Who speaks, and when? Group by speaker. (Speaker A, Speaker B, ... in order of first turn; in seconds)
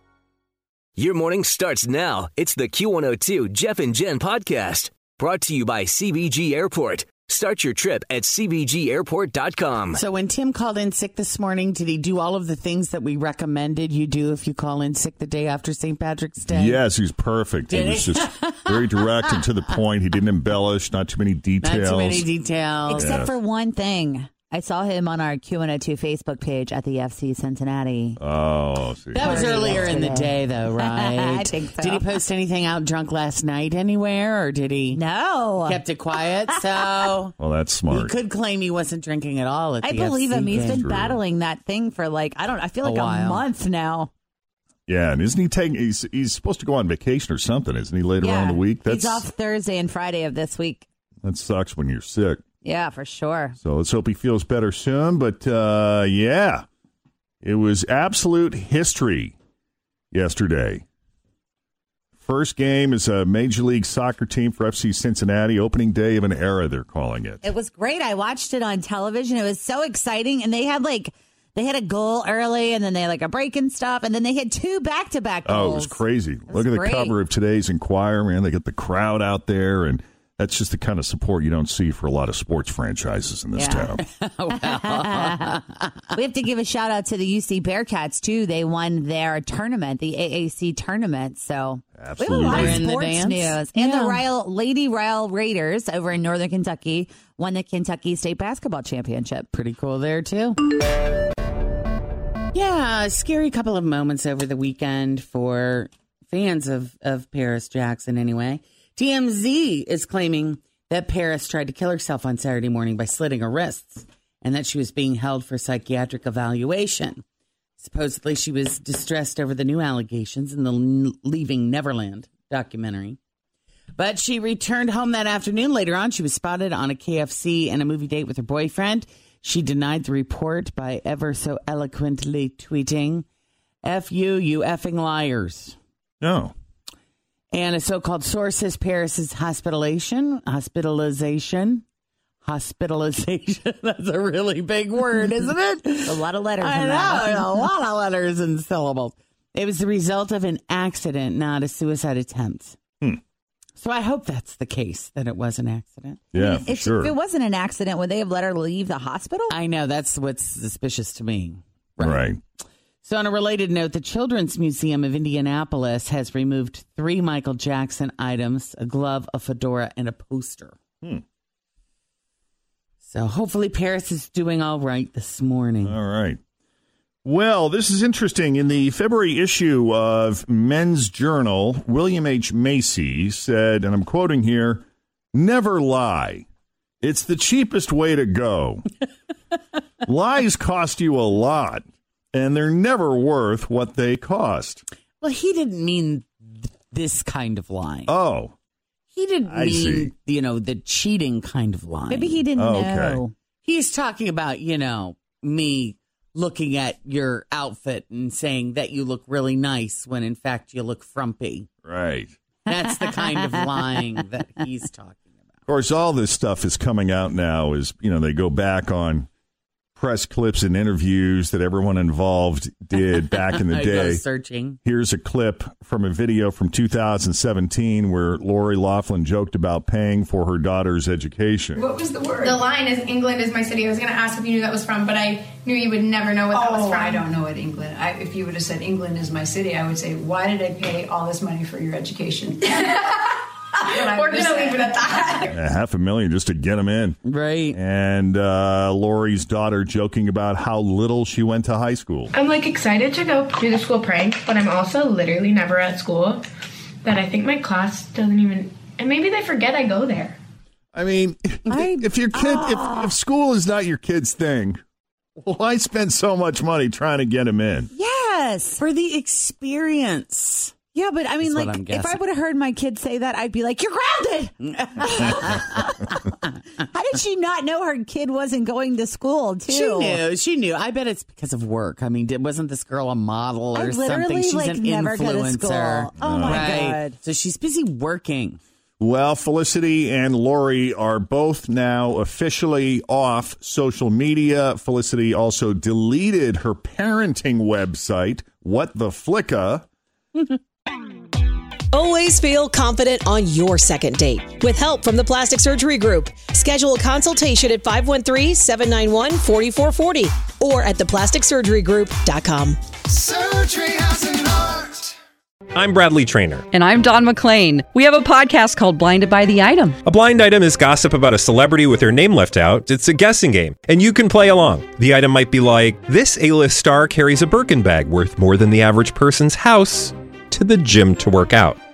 Speaker A: 1.0-10.0
Speaker B: 9.9-16.8, 17.7-19.6, 21.6-23.2, 29.1-35.0, 35.6-37.3, 37.9-40.9, 42.8-43.4, 83.8-85.8, 92.5-94.2, 99.5-100.6, 102.5-117.2, 117.8-123.2, 123.9-133.2, 133.8-135.8, 137.5-141.8, 142.4-152.8, 153.8-156.2, 159.5-162.3, 163.0-170.8, 173.0-176.0, 195.2-198.1, 199.1-202.4, 203.6-211.7, 212.7-215.5, 223.0-224.8, 247.2-247.8, 268.8-270.7, 271.4-272.2, 274.7-275.7, 279.7-288.6
Speaker C: 16.5-22.3, 23.0-23.3, 28.2-29.9, 37.4-38.1, 40.6-41.2, 44.9-49.2, 51.2-52.4, 53.6-56.6, 57.4-59.3, 60.1-60.8, 62.2-67.4, 75.5-84.0, 92.0-92.8, 136.2-136.5, 156.3-157.1, 162.0-162.4, 175.8-176.4, 177.2-186.4, 187.0-188.8, 190.0-194.8, 198.1-198.5, 199.4-200.1, 202.6-203.2, 211.8-212.3, 215.7-219.3, 220.0-224.2, 224.8-231.8, 245.5-247.2, 247.7-252.3, 260.9-264.8, 265.4-267.9, 286.2-286.6, 289.0-299.9
Speaker D: 22.9-28.2, 29.2-32.1, 34.9-36.6, 39.8-44.1, 48.2-50.9, 52.6-53.5, 67.4-77.1, 83.5-84.0, 84.5-85.5, 86.1-99.5, 146.0-147.7, 156.3-159.5, 202.1-203.3, 261.7-263.1, 267.9-268.8, 270.9-275.9, 276.9-280.2, 283.7-287.2
Speaker E: 231.7-232.6, 236.5-243.1, 243.8-245.4
Speaker F: 232.4-237.2, 243.9-245.5, 252.3-256.4, 257.0-260.4
Speaker G: 301.9-312.8
Speaker H: 315.7-316.6, 320.0-331.8
Speaker I: 316.7-320.0